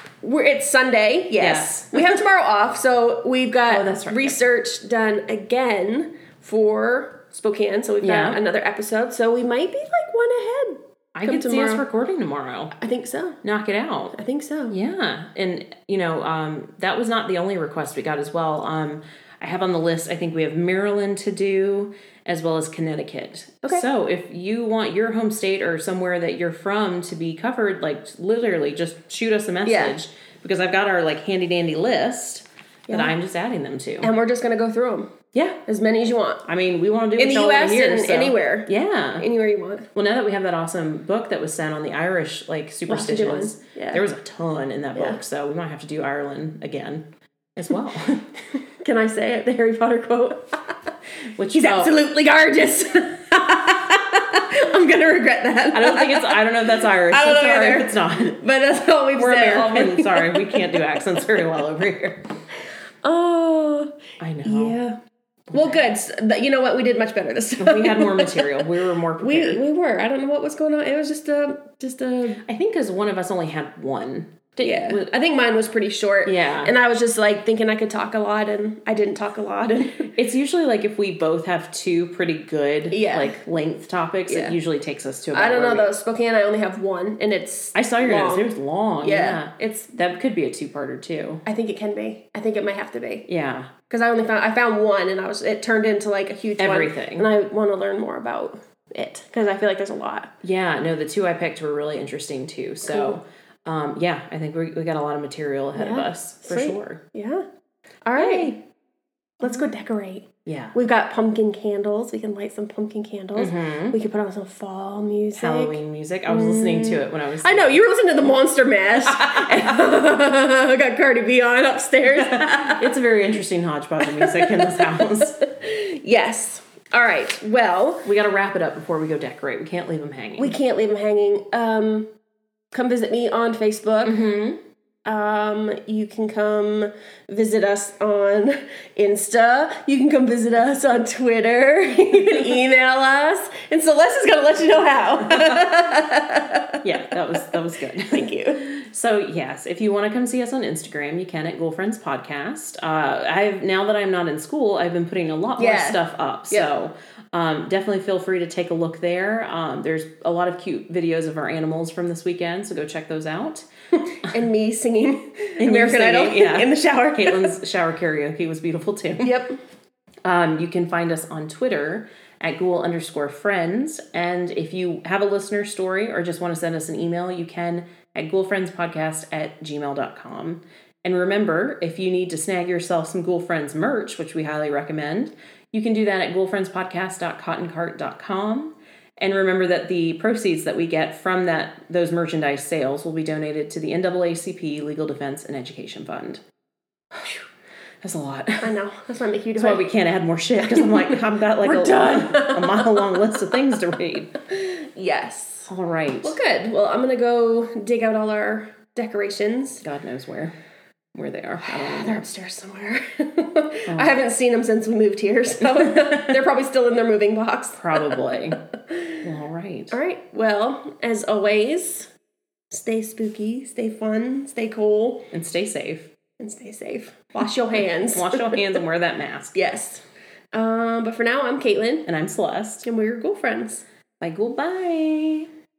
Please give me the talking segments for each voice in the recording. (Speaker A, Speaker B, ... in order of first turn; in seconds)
Speaker A: 0.2-11.8, 12.7-13.4, 14.1-14.8, 29.6-30.0, 32.9-33.1, 34.0-35.1, 35.6-36.4, 37.2-39.9, 42.9-44.0, 48.8-50.7, 51.5-61.0, 63.0-65.0, 65.5-72.4, 74.6-80.1, 82.9-83.4, 84.3-84.5, 85.3-88.5, 89.0-89.9, 91.5-93.3, 93.9-100.3, 102.8-103.2, 105.7-107.4, 108.0-108.6, 109.4-122.9, 124.0-128.1, 130.4-132.1, 132.7-134.2, 135.1-146.8, 147.3-148.7, 155.6-156.7, 164.0-167.5, 169.2-169.6, 198.6-199.9, 200.6-203.2, 204.5-205.7, 206.2-209.8, 211.6-218.2, 218.9-219.2, 219.9-222.1, 222.7-225.3, 226.4-228.6, 229.5-232.1, 232.8-233.8
Speaker B: 1.4-2.2, 3.7-4.4, 8.0-8.4, 11.1-12.7, 13.4-14.1, 14.7-34.1, 35.3-35.6, 36.4-39.2, 39.9-48.3, 51.4-52.0, 55.7-58.4, 59.1-62.2, 64.2-64.8, 65.5-65.8, 67.6-69.6, 72.5-75.0, 76.2-76.7, 80.1-85.9, 87.7-91.4, 93.3-93.7, 96.6-97.3, 100.4-107.0, 108.1-108.5, 110.5-110.7, 113.3-114.0, 115.3-117.8, 119.0-119.9, 122.1-125.4, 128.0-130.6, 134.0-134.6, 145.3-145.6, 146.8-163.7, 165.6-169.3, 170.2-196.4, 197.1-197.4, 198.0-198.7, 199.6-204.3, 205.7-206.4, 209.8-210.5, 211.1-212.2, 213.8-214.1, 215.7-216.3, 217.8-218.6, 219.2-220.0, 225.3-226.1, 228.0-229.6, 232.1-232.8, 234.2-235.5